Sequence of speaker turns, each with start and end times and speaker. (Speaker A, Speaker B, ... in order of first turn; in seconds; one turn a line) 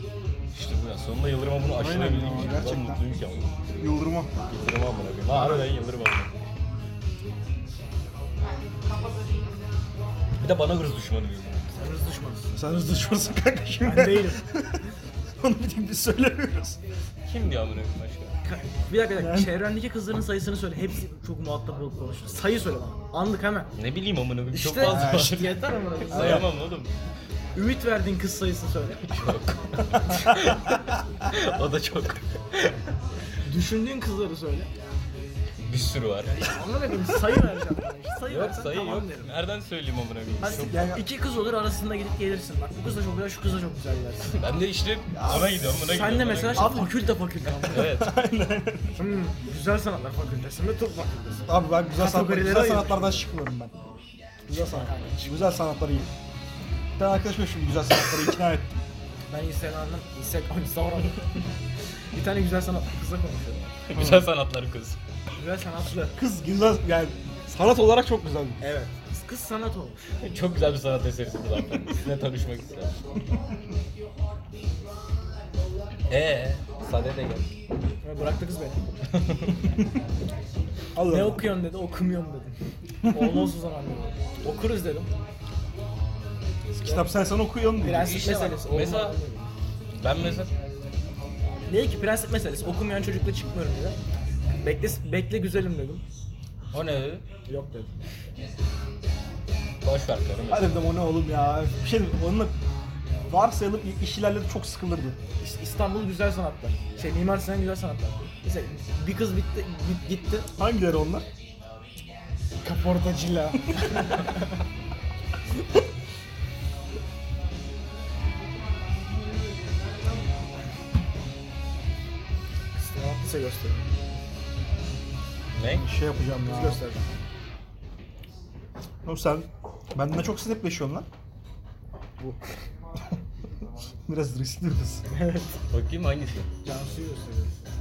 Speaker A: 0.5-3.6
Speaker B: 1.8-3.0
Speaker B: 3.8-4.3
Speaker A: 4.5-6.3
Speaker B: 5.3-5.7
Speaker A: 10.4-11.8
Speaker C: 11.8-12.6
Speaker B: 12.5-14.8
Speaker C: 13.8-14.4
Speaker B: 15.4-16.8
Speaker A: 17.2-18.3
Speaker C: 18.4-23.7
Speaker B: 19.2-19.5
Speaker A: 23.8-26.9
Speaker C: 24.5-26.5
Speaker B: 24.8-25.4
Speaker B: 26.1-26.5
Speaker C: 27.5-29.2
Speaker A: 29.1-32.8
Speaker C: 30.1-30.5
Speaker C: 33.4-34.7
Speaker A: 35.7-36.5
Speaker C: 36.4-39.3
Speaker A: 38.2-40.9
Speaker C: 40.4-44.4
Speaker B: 40.5-41.0
Speaker A: 44.3-46.9
Speaker B: 45.1-45.8
Speaker C: 45.9-47.9
Speaker B: 46.5-47.0
Speaker A: 47.6-48.1
Speaker B: 47.7-49.0
Speaker C: 49.0-53.3
Speaker B: 51.5-53.7
Speaker B: 54.5-56.1
Speaker C: 54.5-55.5
Speaker B: 57.0-58.8
Speaker C: 59.3-61.2
Speaker C: 62.1-63.7
Speaker A: 63.9-65.0
Speaker B: 63.9-64.3
Speaker C: 65.4-66.2
Speaker B: 66.2-68.6
Speaker C: 68.6-70.0
Speaker A: 70.2-73.0
Speaker A: 76.1-77.5
Speaker C: 78.0-78.8
Speaker A: 79.2-79.5
Speaker B: 80.9-81.5
Speaker C: 81.1-82.5
Speaker B: 83.0-83.5
Speaker C: 83.1-85.1
Speaker B: 86.8-88.3
Speaker C: 87.8-89.5
Speaker A: 87.9-89.2
Speaker A: 90.0-90.5
Speaker C: 91.7-94.0
Speaker C: 94.6-96.0
Speaker A: 96.7-97.2
Speaker C: 97.5-97.9
Speaker A: 99.8-100.8
Speaker B: 100.5-102.5
Speaker B: 103.2-105.2
Speaker C: 105.4-110.5
Speaker B: 110.5-111.2
Speaker C: 112.6-114.3
Speaker C: 122.8-123.9
Speaker A: 125.6-125.8
Speaker B: 125.6-126.8
Speaker C: 126.4-127.0
Speaker B: 129.0-131.1
Speaker B: 134.1-135.0
Speaker C: 135.1-135.6
Speaker A: 135.7-136.5
Speaker C: 136.6-137.6